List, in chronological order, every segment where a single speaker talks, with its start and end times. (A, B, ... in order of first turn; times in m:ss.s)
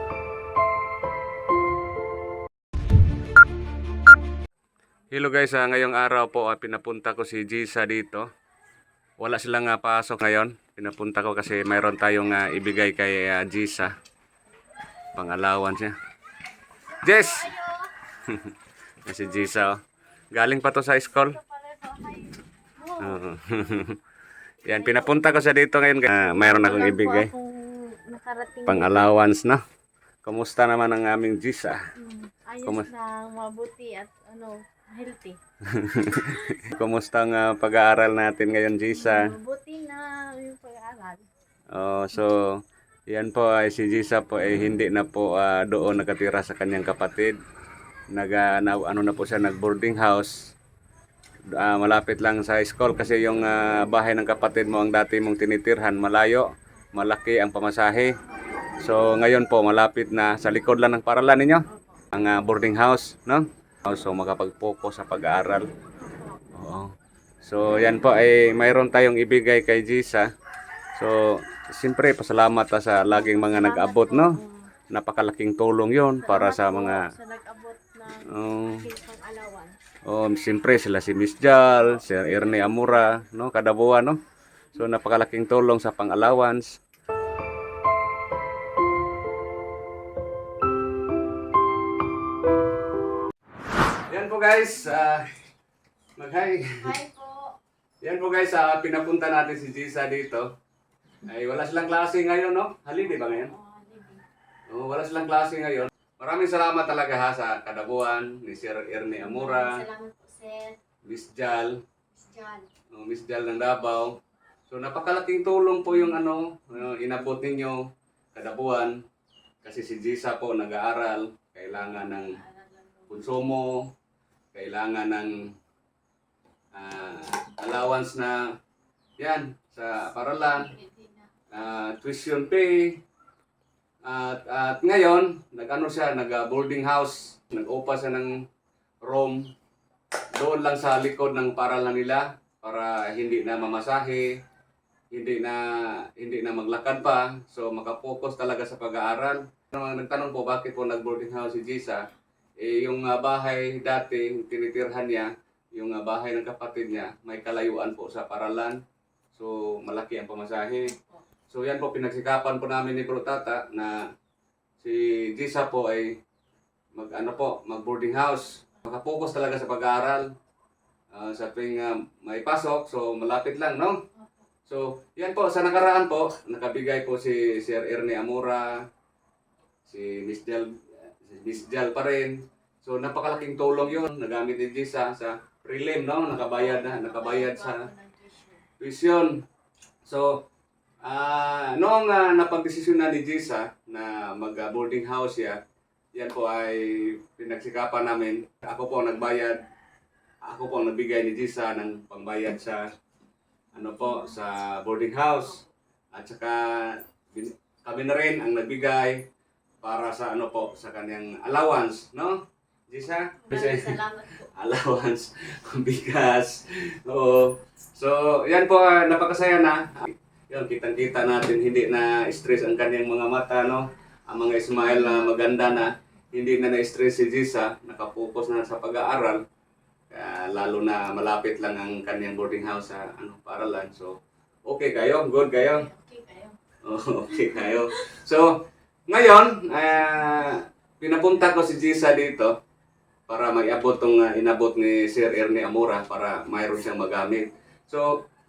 0:05.1-0:08.3 A
0:09.2-0:13.9 A
0:15.2-0:16.0 A
0:17.0-0:17.9 B
0:17.0-0:17.5 A
0:18.2-0:19.8 A
0:20.3-0:21.4 A
0:21.2-0:23.2 B
0:23.0-0:24.0 A
0:24.7-0:25.2 B
0:24.7-0:27.3 A
0:26.3-0:29.1 B
0:28.7-0:29.6 A
0:30.2-0:31.8 A
0:32.0-0:35.4 B
0:32.6-0:32.9 A
0:35.7-0:39.4 A
0:36.1-0:36.7 B
0:38.9-0:41.3 B
0:41.7-0:47.4 A
0:48.1-0:50.5 A
0:51.5-0:58.1 A
0:58.8-1:05.7 A
1:01.7-1:02.0 B
1:06.1-1:06.4 B
1:06.5-1:06.9 A
1:07.4-1:10.3 A
1:11.0-1:14.4 A
1:13.0-1:14.7 B
1:14.9-1:17.0 A
1:16.2-1:19.8 B
1:18.2-1:18.8 A
1:20.1-1:24.2 A
1:21.7-1:23.2 B
1:24.8-1:26.8 A
1:34.1-1:35.3 A
1:36.2-1:36.9 A
1:36.8-1:37.6 B
1:38.0-1:40.5 A
1:41.2-1:43.5 A
1:43.1-1:44.2 B
1:44.7-1:49.8 A
1:49.2-1:50.8 B
1:51.0-1:51.8 A
1:52.1-1:52.7 B
1:52.9-1:54.2 A
1:54.7-1:57.8 A
1:58.4-1:59.0 A
1:59.6-2:02.3 A
2:02.0-2:03.4 B
2:03.1-2:03.9 A
2:04.5-2:05.4 A
2:06.7-2:08.5 A
2:09.2-2:10.7 A
2:10.3-2:11.3 B
2:11.5-2:13.0 A
2:14.0-2:18.4 A
2:19.0-2:19.5 A
2:20.4-2:24.3 A
2:25.1-2:32.0 A
2:32.6-2:38.8 A
2:39.3-2:40.9 A
2:40.9-2:41.2 B
2:41.5-2:44.1 A
2:44.8-2:46.2 A
2:47.0-2:50.3 A
2:51.1-2:54.0 A
2:54.2-2:54.4 B
2:54.7-2:58.8 A
2:59.9-3:07.8 A
3:06.5-3:08.6 B
3:08.8-3:09.4 A
3:10.1-3:10.4 A
3:11.0-3:15.6 A
3:16.2-3:19.6 A
3:20.5-3:22.9 A
3:23.7-3:25.6 A
3:24.0-3:24.4 B
3:26.2-3:29.3 A
3:29.8-3:34.0 A
3:33.4-3:34.5 B
3:34.5-3:49.4 A
3:44.8-3:45.4 B
3:50.1-3:54.2 A
3:54.7-3:55.9 A
3:55.6-3:56.6 B
3:56.9-3:58.6 A
3:57.3-3:58.1 B
3:59.1-4:02.5 A
4:03.3-4:08.1 A